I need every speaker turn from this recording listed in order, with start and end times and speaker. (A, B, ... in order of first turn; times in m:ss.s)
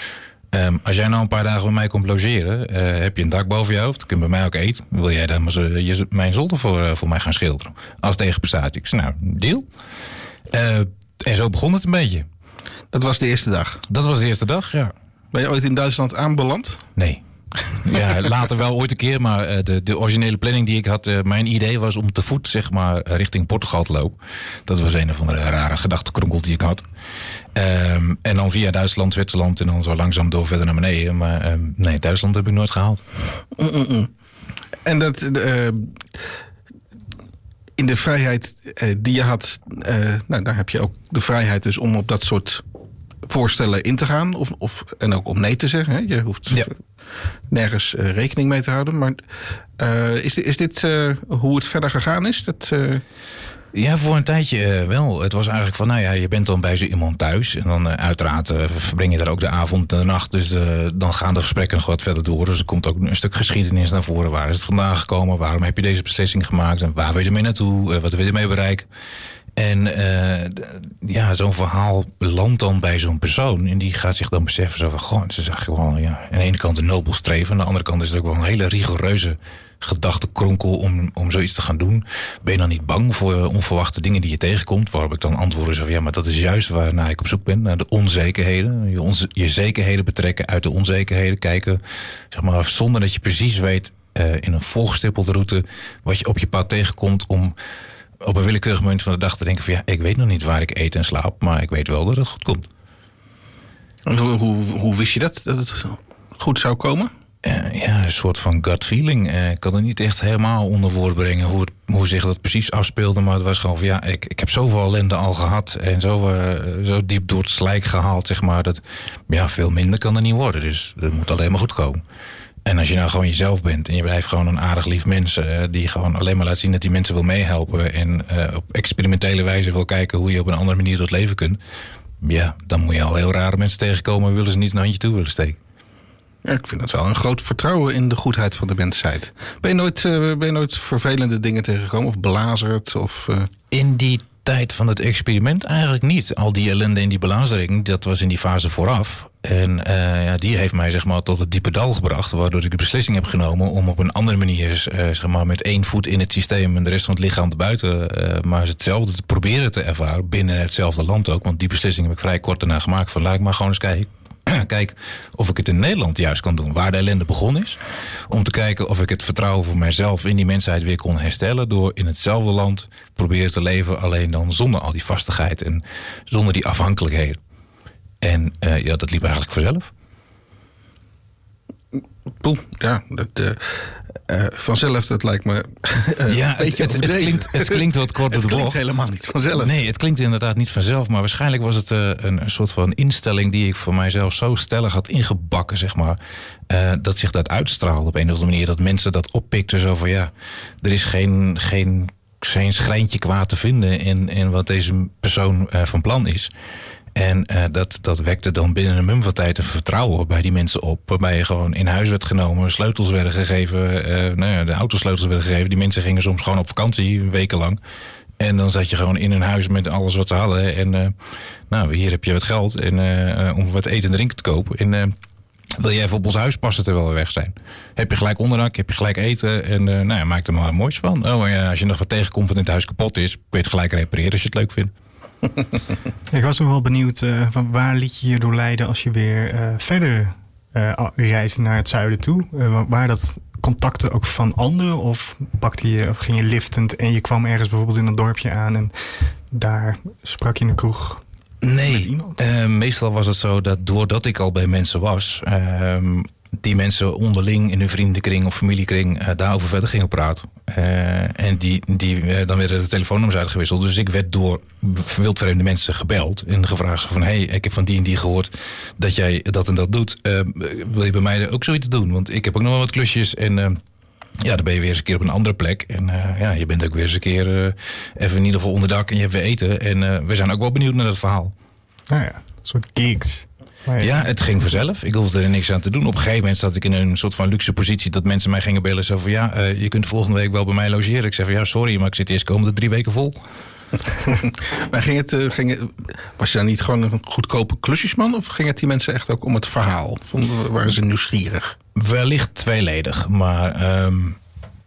0:00.5-0:09.6 A
0:10.5-0:12.2 A
0:12.9-0:13.8 B
0:13.9-0:14.9 A
0:15.3-0:16.8 B
0:17.0-0:26.8 A
0:27.5-0:33.0 A
0:33.6-0:34.1 B
0:34.8-0:36.2 B
0:37.8-0:42.6 B
0:43.3-0:46.7 B
0:47.5-0:49.2 B
0:49.8-0:53.0 B
0:53.7-1:08.8 A
1:09.6-1:37.5 A
1:38.2-1:42.6 A
1:44.0-1:47.1 B
1:47.4-2:02.0 A
2:02.6-2:11.6 A
2:12.2-2:15.6 A
2:16.4-2:23.5 B
2:23.7-2:57.4 A
2:58.2-2:59.9 A
3:01.9-3:09.7 B
3:06.3-3:09.0 A
3:09.6-3:16.2 A
3:16.7-3:20.3 A
3:20.8-3:26.5 A
3:27.1-3:37.8 A
3:38.4-3:41.1 A
3:41.7-3:45.2 A
3:45.8-3:54.9 A
3:56.3-4:08.9 C
4:09.5-4:11.2 C
4:11.6-4:33.8 A
4:11.9-4:12.4 C
4:34.4-4:41.5 A
4:42.1-4:44.2 C
4:44.0-4:53.4 A
4:54.2-5:01.8 B
5:01.9-5:04.4 A